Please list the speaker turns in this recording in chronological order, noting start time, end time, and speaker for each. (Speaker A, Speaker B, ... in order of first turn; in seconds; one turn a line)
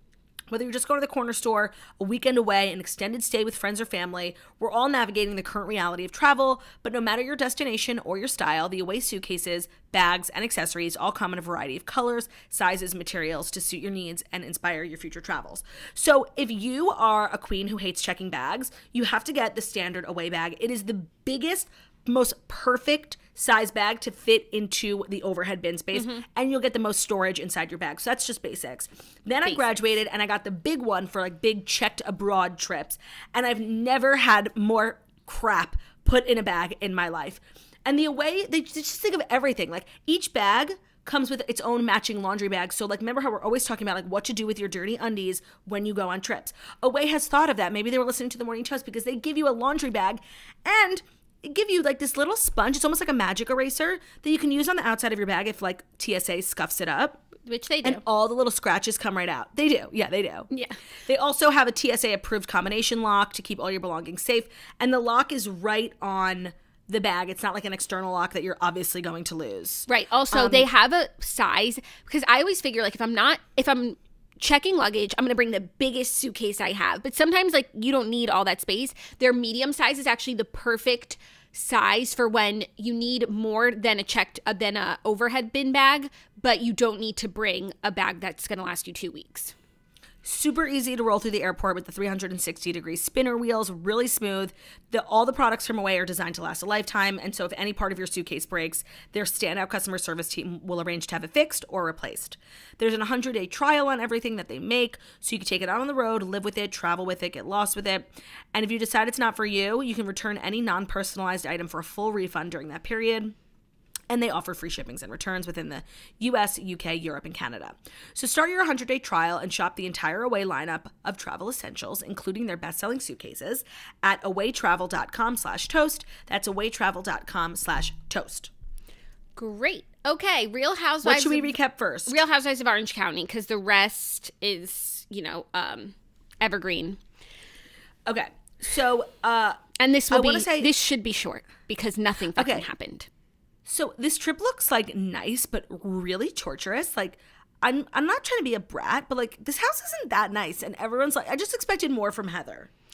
Speaker A: 0.5-57.2
Speaker B: 25.9-26.2
Speaker B: 29.4-29.8
Speaker B: 57.4-58.0
Speaker A: 57.8-60.5
Speaker B: 60.5-60.8
Speaker A: 61.1-70.7
Speaker B: 69.9-89.5
Speaker A: 90.2-113.3
Speaker A: 114.1-128.5
Speaker B: 129.3-131.5
Speaker A: 131.0-132.2
Speaker B: 132.1-137.0
Speaker A: 138.1-139.6
Speaker B: 139.8-143.1
Speaker A: 140.1-140.7
Speaker A: 142.3-142.7
Speaker A: 143.7-152.7